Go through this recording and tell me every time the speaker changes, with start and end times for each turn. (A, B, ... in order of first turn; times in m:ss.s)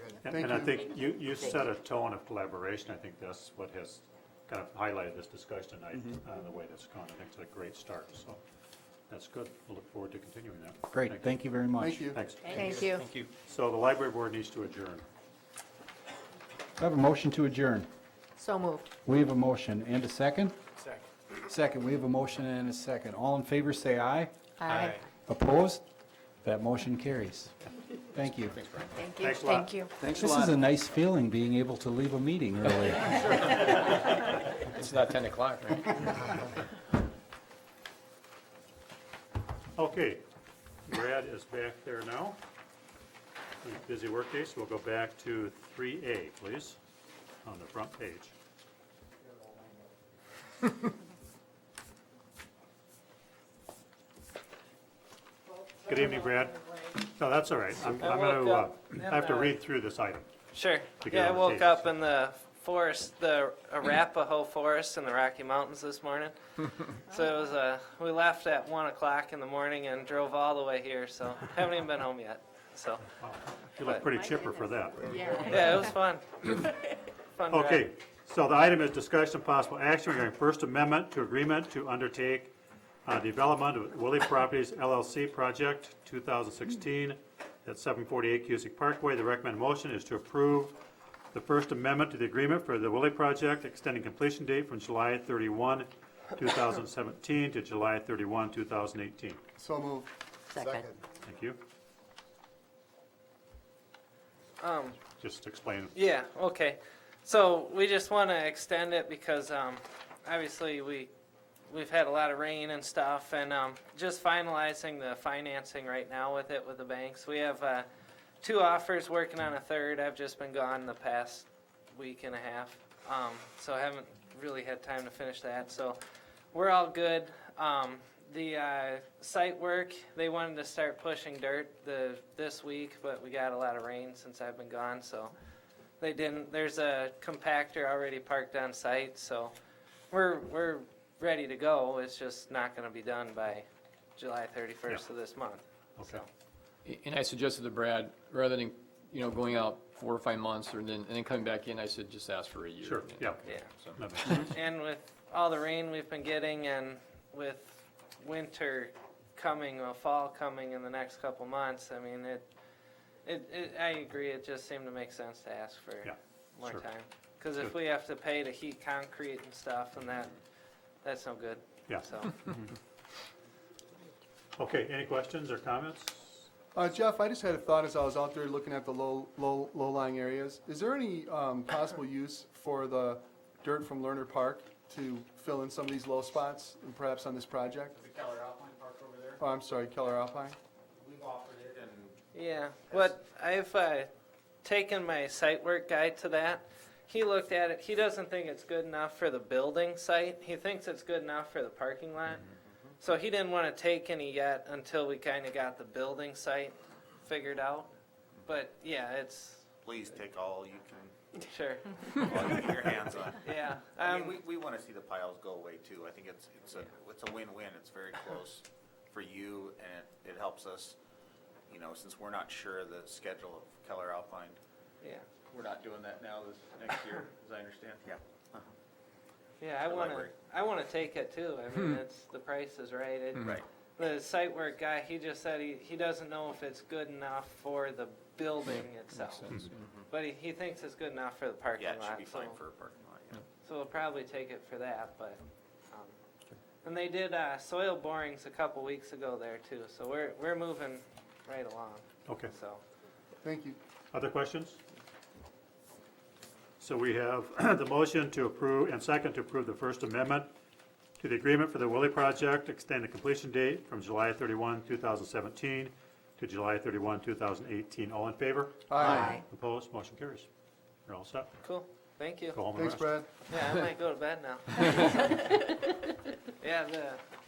0:00.2-0:08.4 A
0:00.2-0:00.8 B
0:09.1-0:11.4 A
0:10.9-0:12.1 C
0:11.8-0:12.2 B
0:12.1-0:12.7 A
0:12.5-0:13.0 D
0:13.4-0:15.0 A
0:16.8-0:17.9 C
0:18.4-0:18.9 D
0:19.0-0:20.6 C
0:21.5-0:24.3 C
0:24.6-0:25.0 D
0:25.2-0:25.8 C
0:26.4-0:27.5 C
0:28.0-0:28.6 C
0:29.0-0:29.9 D
0:29.2-0:29.9 A
0:30.0-0:30.5 E
0:30.1-0:33.6 C
0:34.7-0:36.3 E
0:39.8-0:40.2 A
0:40.9-0:42.4 A
0:43.6-0:46.8 A
0:47.4-0:48.3 A
0:55.8-1:00.3 A
0:57.9-0:59.6 F
1:00.5-1:13.1 F
1:00.9-1:01.9 A
1:13.2-1:15.9 A
1:13.8-1:14.1 F
1:15.4-1:16.6 F
1:17.4-1:17.9 F
1:17.5-1:22.5 A
1:23.0-1:30.8 A
1:31.3-1:39.4 A
1:39.6-1:41.0 B
1:40.5-1:40.9 D
1:41.2-1:41.6 A
1:44.6-1:45.0 F
1:45.2-1:46.0 A
1:45.9-1:51.1 F
1:51.7-1:57.8 F
1:58.4-2:06.0 F
2:06.5-2:15.3 F
2:16.0-2:19.5 F
2:20.1-2:23.7 F
2:24.2-2:26.3 F
2:26.8-2:34.4 E
2:32.8-2:34.5 A
2:34.4-2:42.4 F
2:43.2-2:50.4 F
2:46.0-2:46.9 A
2:51.0-2:52.4 F
2:51.9-2:52.7 A
2:54.6-2:56.5 A
2:56.7-3:08.0 B
3:08.0-3:09.4 G
3:09.4-3:10.6 B
3:11.0-3:12.2 G
3:12.3-3:14.1 F
3:14.6-3:22.5 F
3:23.0-3:27.9 F
3:28.5-3:29.7 F
3:29.8-3:31.2 G
3:31.4-3:32.3 F
3:32.2-3:41.0 G
3:33.4-3:34.4 F
3:41.7-3:44.6 G
3:45.0-3:45.3 F
3:45.5-3:48.7 G
3:49.6-3:59.5 F
3:49.9-3:50.3 G
3:53.4-3:53.6 G
3:59.2-3:59.7 E
4:00.1-4:02.6 F
4:01.8-4:03.4 G
4:03.6-4:05.4 F
4:06.8-4:12.8 F
4:13.4-4:13.8 B
4:14.1-4:14.8 A
4:16.8-4:20.5 A
4:21.2-4:30.5 A
4:28.9-4:29.4 B
4:29.0-4:29.4 D
4:31.1-4:31.6 A
4:31.6-4:32.7 F
4:32.5-4:33.2 A
4:32.7-4:33.5 B
4:33.5-4:37.2 F